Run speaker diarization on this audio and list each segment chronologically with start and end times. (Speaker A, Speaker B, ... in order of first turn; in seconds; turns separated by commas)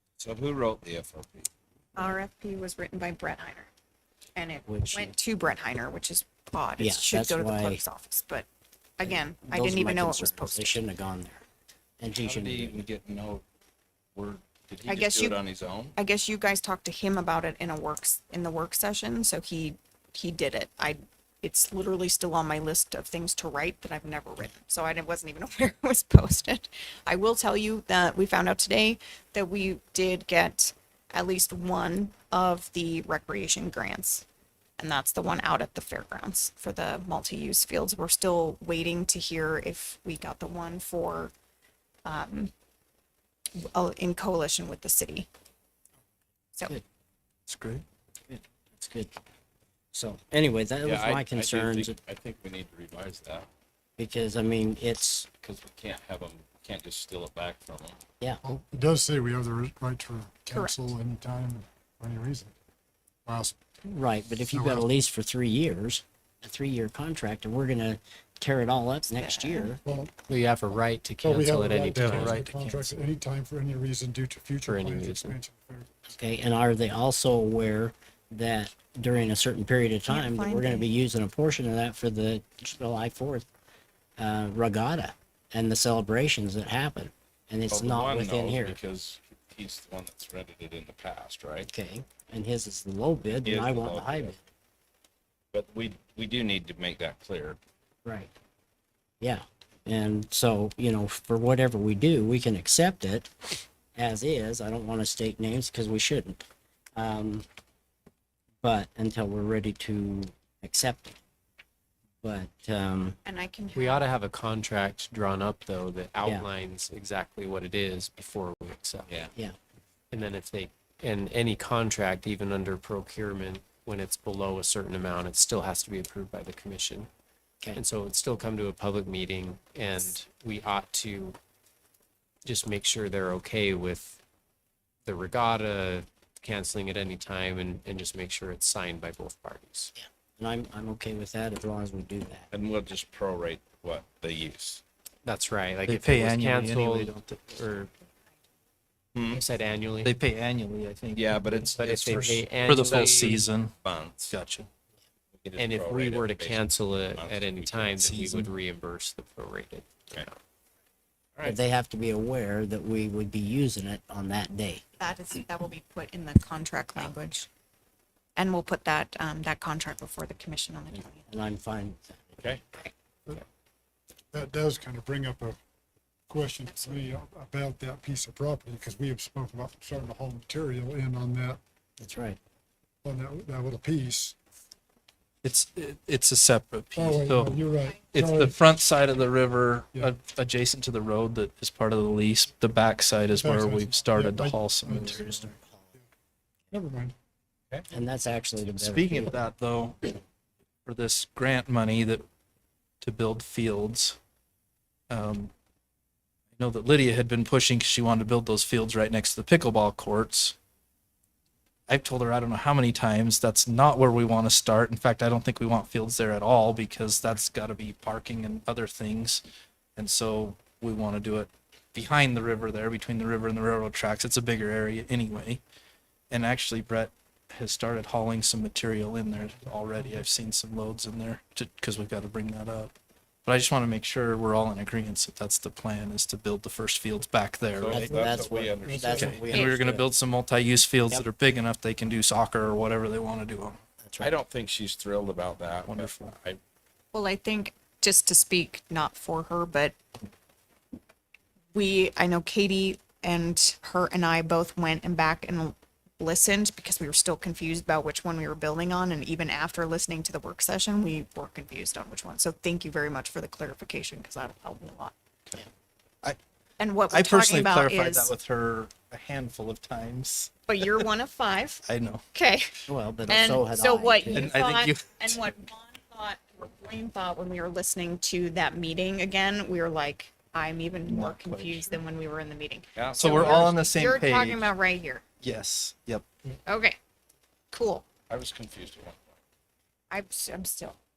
Speaker A: 0.2-1.5, Speaker B: 1.9-3.7, Speaker B: 4.3-8.4, Speaker C: 4.7-5.1, Speaker C: 6.8-7.8, Speaker B: 9.0-10.8, Speaker C: 9.0-11.4, Speaker C: 12.0-12.8, Speaker A: 12.2-13.4, Speaker A: 14.1-15.9, Speaker B: 14.8-15.4, Speaker B: 15.9-34.2, Speaker B: 34.8-41.3, Speaker B: 42.0-42.5, Speaker B: 43.6-45.3, Speaker D: 47.5-47.8, Speaker C: 48.3-49.2, Speaker C: 49.9-52.0, Speaker A: 50.8-53.5, Speaker C: 54.0-55.3, Speaker A: 55.4-58.0, Speaker E: 58.4-62.5, Speaker E: 63.2-63.5, Speaker C: 63.8-69.8, Speaker E: 64.5-64.8, Speaker B: 69.2-69.8, Speaker E: 69.8-70.1, Speaker F: 70.3-72.4, Speaker E: 71.2-76.2, Speaker D: 72.1-72.9, Speaker F: 74.6-75.3, Speaker C: 76.2-83.5, Speaker B: 80.1-80.9, Speaker C: 84.2-88.8, Speaker A: 87.7-91.7, Speaker C: 91.7-94.4, Speaker A: 93.4-94.4, Speaker A: 95.5-97.6, Speaker C: 98.0-98.3, Speaker C: 99.2-106.4, Speaker C: 107.0-107.5, Speaker C: 108.6-111.2, Speaker C: 112.2-113.2, Speaker B: 113.2-114.1, Speaker F: 113.8-119.2, Speaker F: 120.1-127.1, Speaker F: 127.7-131.4, Speaker F: 132.4-134.2, Speaker F: 135.1-139.9, Speaker C: 139.9-142.5, Speaker A: 142.5-144.8, Speaker F: 145.2-147.9, Speaker D: 145.8-147.5, Speaker A: 149.1-149.4, Speaker F: 149.3-150.1, Speaker D: 150.0-153.7, Speaker A: 151.1-152.4, Speaker F: 151.8-153.4, Speaker A: 153.8-154.3, Speaker D: 154.3-154.7, Speaker A: 155.3-158.2, Speaker F: 155.6-160.4, Speaker D: 158.0-158.5, Speaker C: 161.4-164.8, Speaker B: 165.0-167.5, Speaker B: 168.3-171.3, Speaker C: 170.9-172.4, Speaker A: 172.4-172.6, Speaker E: 174.3-175.6, Speaker E: 176.3-181.6, Speaker B: 176.7-177.1, Speaker C: 182.0-182.4, Speaker E: 183.0-184.3, Speaker D: 185.4-195.5, Speaker E: 186.9-188.5, Speaker E: 193.3-195.5, Speaker E: 196.7-197.1, Speaker C: 197.9-199.4, Speaker D: 198.7-200.0, Speaker D: 200.8-202.2, Speaker D: 203.0-204.2, Speaker D: 205.1-205.5, Speaker D: 206.6-210.6, Speaker D: 211.9-219.4, Speaker D: 219.9-225.6, Speaker D: 226.3-232.9, Speaker D: 233.4-238.2, Speaker A: 237.8-239.5, Speaker C: 237.9-240.1, Speaker E: 238.8-239.4, Speaker D: 239.4-243.8, Speaker B: 239.5-239.7, Speaker C: 244.0-244.3, Speaker A: 244.2-246.6, Speaker D: 245.9-246.3, Speaker B: 247.1-249.9, Speaker B: 251.7-265.1, Speaker B: 266.8-268.3, Speaker D: 267.1-271.1, Speaker B: 270.7-271.8, Speaker D: 271.8-272.2, Speaker B: 272.3-285.2, Speaker C: 272.9-274.5, Speaker D: 274.3-275.5, Speaker D: 281.1-282.0, Speaker A: 282.9-283.9, Speaker D: 283.1-284.7, Speaker D: 285.4-286.2, Speaker B: 286.6-287.0, Speaker B: 287.7-288.1, Speaker A: 288.3-289.4, Speaker B: 290.1-291.0